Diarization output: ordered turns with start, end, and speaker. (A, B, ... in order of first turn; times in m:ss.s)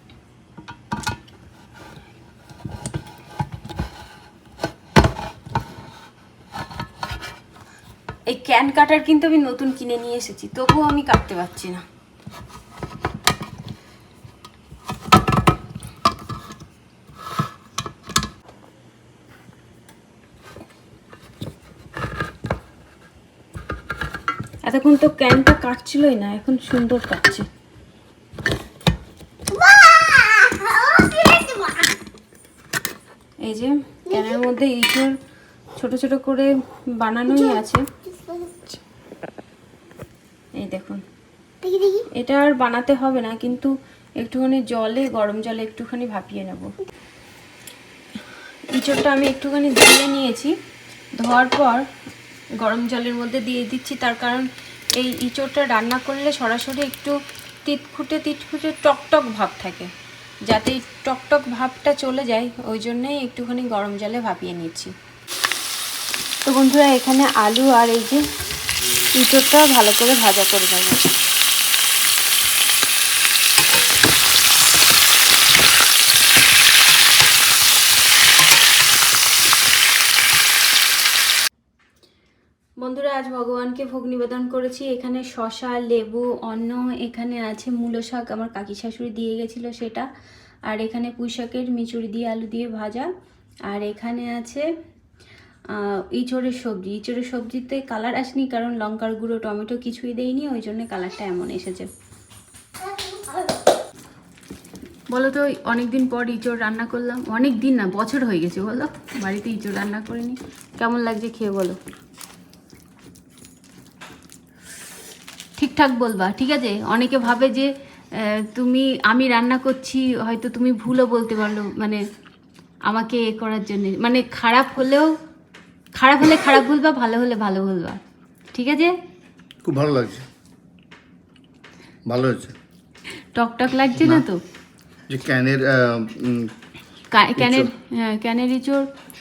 0:08.3-0:11.8 A
0:24.7-0:27.5 A
0:29.5-0:32.0 B
0:33.4-0:35.1 A
0:34.1-0:34.4 B
0:35.8-0:37.8 A
0:40.6-0:41.0 A
0:41.6-0:42.0 B
0:42.2-0:46.7 A
0:48.7-0:50.5 A
0:51.2-0:51.9 A
0:52.6-0:59.9 A
1:00.5-1:04.9 A
1:06.4-1:08.2 A
1:09.1-1:11.1 A
1:22.8-1:30.1 A
1:30.7-1:33.1 A
1:33.7-1:34.7 A
1:35.7-1:41.9 A
1:45.1-1:51.8 A
1:55.6-2:02.0 A
2:02.9-2:05.1 A
2:06.0-2:08.0 A
2:08.5-2:09.0 A
2:09.6-2:10.2 C
2:12.1-2:12.6 C
2:13.4-2:14.4 A
2:14.0-2:14.3 C
2:15.1-2:16.5 C
2:17.1-2:18.9 A
2:17.4-2:17.7 C